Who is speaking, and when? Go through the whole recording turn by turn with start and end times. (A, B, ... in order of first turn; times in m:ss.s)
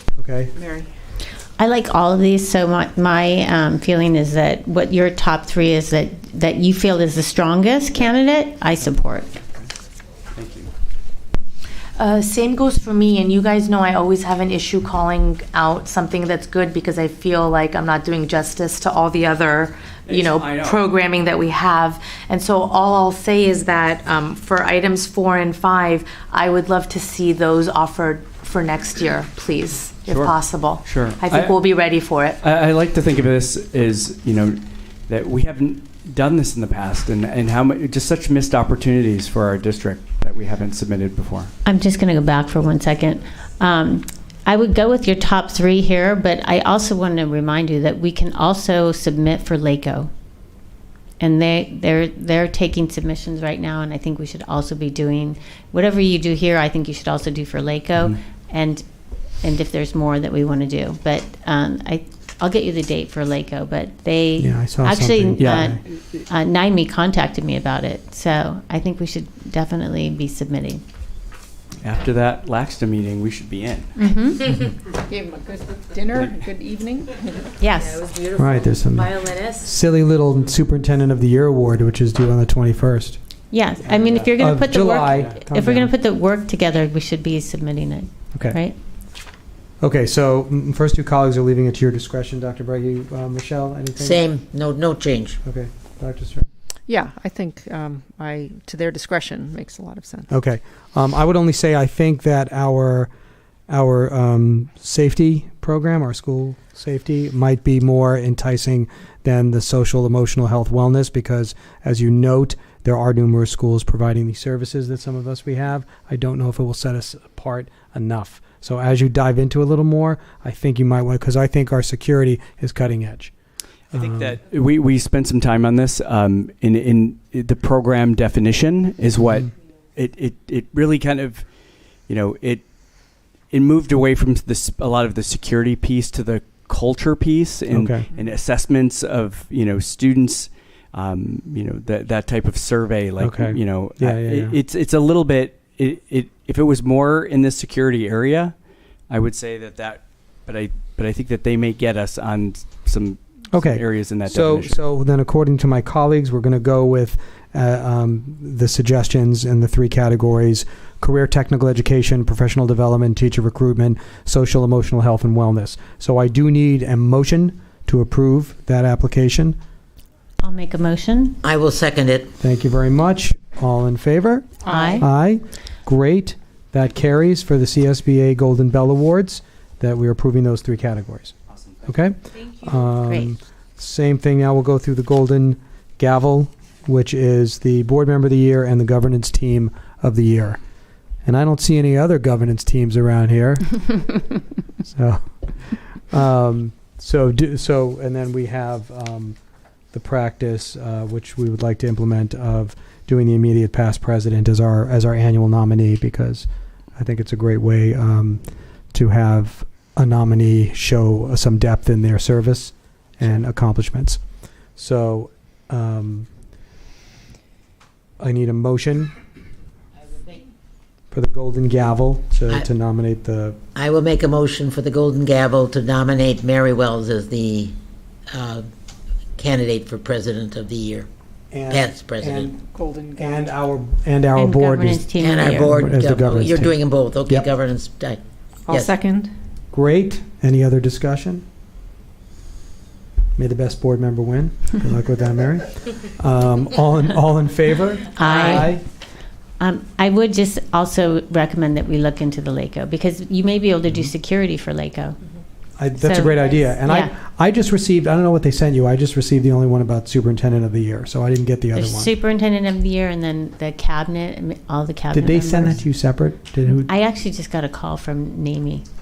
0:00.2-0:00.5 A
0:00.6-0:00.9 B
0:01.6-0:09.3 C
0:10.3-0:10.7 D
0:12.0-0:32.4 E
0:20.1-0:20.8 D
0:30.1-0:31.6 D
0:32.4-0:41.5 D
0:41.6-0:50.1 C
0:51.2-0:58.8 C
0:59.4-1:10.8 C
1:04.4-1:05.8 A
1:05.4-1:05.8 D
1:11.8-1:14.0 D
1:14.0-1:14.5 C
1:15.1-1:17.5 B
1:16.1-1:16.5 D
1:17.6-1:18.0 C
1:17.8-1:19.7 E
1:18.4-1:23.2 A
1:23.5-1:28.8 C
1:23.8-1:25.9 A
1:29.8-1:34.2 A
1:34.0-1:35.4 F
1:35.4-1:36.5 A
1:36.9-1:40.3 B
1:40.3-1:43.1 A
1:43.7-2:03.3 A
2:03.9-2:11.5 D
2:03.9-2:04.4 A
2:12.1-2:12.6 D
2:13.5-2:28.5 D
2:17.7-2:18.1 A
2:23.2-2:24.6 A
2:29.1-2:34.8 D
2:33.5-2:49.6 A
2:50.4-2:51.4 C
2:51.4-2:52.3 F
2:52.4-3:01.3 A
2:54.6-2:55.1 C
2:54.7-2:55.0 B
3:01.8-3:10.6 A
3:11.2-3:14.2 A
3:15.0-3:15.2 A
3:16.1-3:19.4 A
3:19.9-3:28.4 A
3:28.9-3:34.2 A
3:34.8-3:36.3 A
3:38.2-3:39.1 A
3:41.1-3:43.6 A
3:43.8-3:47.8 F
3:48.3-3:48.7 F
3:49.4-3:51.1 F
3:51.5-3:52.6 A
3:51.7-3:52.5 F
3:52.6-3:53.4 B
3:53.2-3:55.1 A
3:54.4-3:55.9 C
3:55.2-3:59.0 F
3:55.6-3:57.5 A
3:58.7-3:59.3 B
3:59.7-4:01.4 A
4:03.4-4:08.8 A
4:08.2-4:08.8 C
4:09.6-4:15.2 C
4:15.8-4:22.1 A
4:16.0-4:17.1 C
4:21.7-4:25.8 C
4:25.1-4:26.9 A
4:26.7-4:28.8 C